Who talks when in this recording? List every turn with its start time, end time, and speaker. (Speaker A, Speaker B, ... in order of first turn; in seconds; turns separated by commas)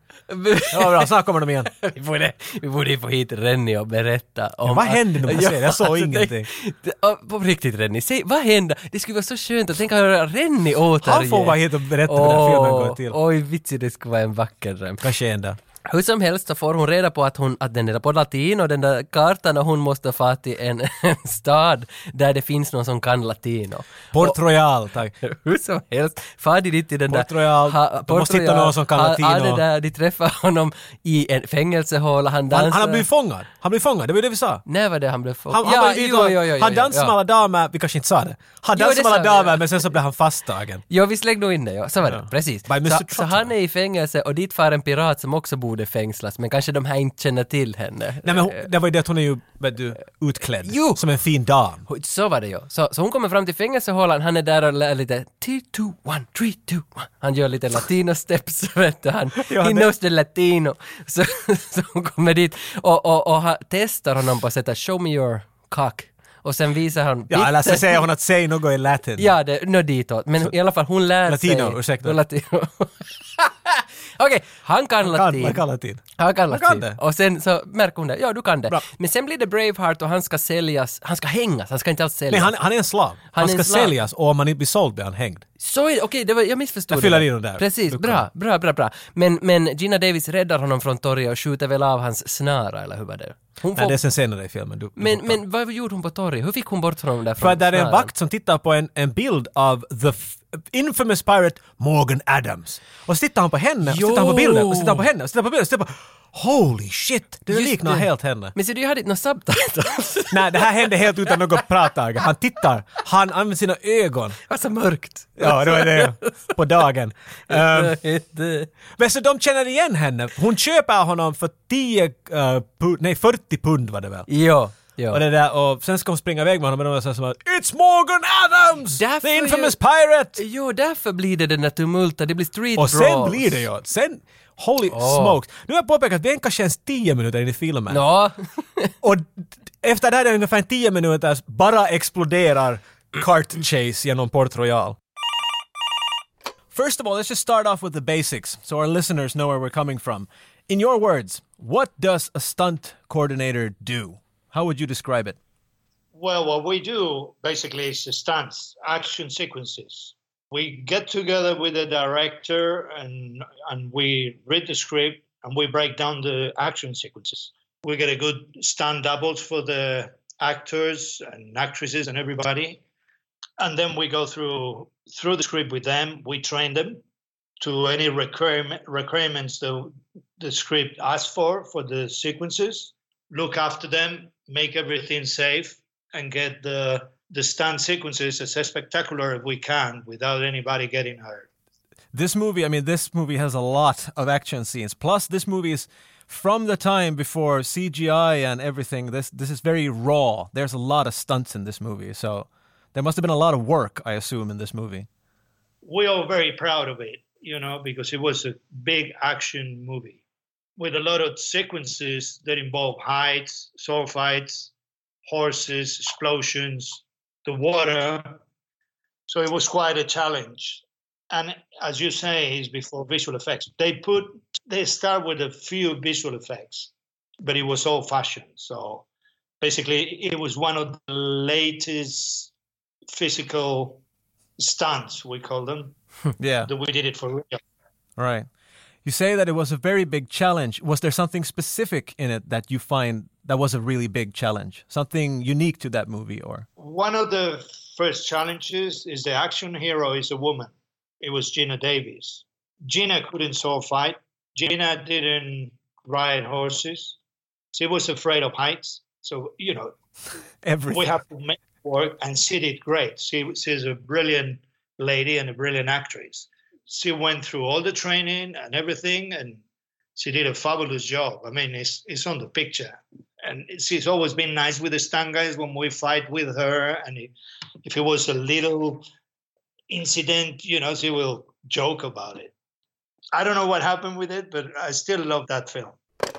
Speaker A: 0.3-1.1, Speaker B: 0.7-1.7, Speaker A: 1.7-15.1, Speaker B: 4.6-6.5, Speaker B: 11.0-13.2, Speaker B: 15.0-15.6, Speaker A: 15.8-24.4, Speaker B: 24.1-25.1, Speaker A: 25.2-33.0, Speaker B: 27.1-29.6, Speaker B: 32.5-34.6, Speaker A: 34.7-37.1, Speaker B: 35.5-40.8, Speaker A: 38.7-39.6, Speaker A: 40.9-48.7, Speaker B: 42.0-43.5, Speaker B: 48.2-51.8, Speaker A: 50.6-51.0, Speaker A: 51.9-68.0, Speaker B: 59.4-59.9, Speaker B: 67.3-69.3, Speaker A: 69.2-75.6, Speaker B: 71.2-72.2, Speaker B: 75.0-77.0, Speaker A: 76.2-82.5, Speaker B: 82.3-85.4, Speaker A: 83.3-83.9, Speaker A: 85.6-94.0, Speaker B: 86.9-88.2, Speaker B: 93.7-95.4, Speaker A: 95.0-98.1, Speaker B: 97.4-108.5, Speaker A: 103.8-105.0, Speaker A: 107.5-111.6, Speaker B: 110.3-114.4, Speaker A: 114.5-116.5, Speaker B: 115.4-118.0, Speaker A: 117.5-118.7, Speaker B: 119.0-124.3, Speaker A: 124.3-125.2, Speaker B: 125.1-130.4, Speaker A: 128.9-129.8, Speaker A: 130.3-133.6, Speaker B: 132.8-138.0, Speaker A: 134.9-135.4, Speaker A: 137.9-138.9, Speaker B: 139.0-145.0, Speaker B: 146.7-155.4, Speaker C: 156.1-172.8, Speaker C: 173.6-177.0, Speaker C: 177.6-191.5, Speaker B: 192.1-205.1, Speaker C: 205.8-210.2, Speaker C: 210.8-214.7, Speaker C: 215.2-218.4, Speaker C: 219.3-229.0, Speaker C: 229.6-232.5, Speaker C: 233.1-234.0, Speaker C: 234.6-235.9, Speaker B: 236.4-236.7, Speaker C: 236.6-237.6, Speaker B: 238.2-238.5, Speaker B: 239.0-246.7, Speaker C: 246.8-257.2, Speaker C: 257.7-259.9, Speaker B: 260.6-261.1, Speaker C: 260.9-269.6, Speaker C: 270.1-277.3, Speaker C: 277.8-279.0, Speaker C: 279.9-282.5, Speaker C: 283.3-286.0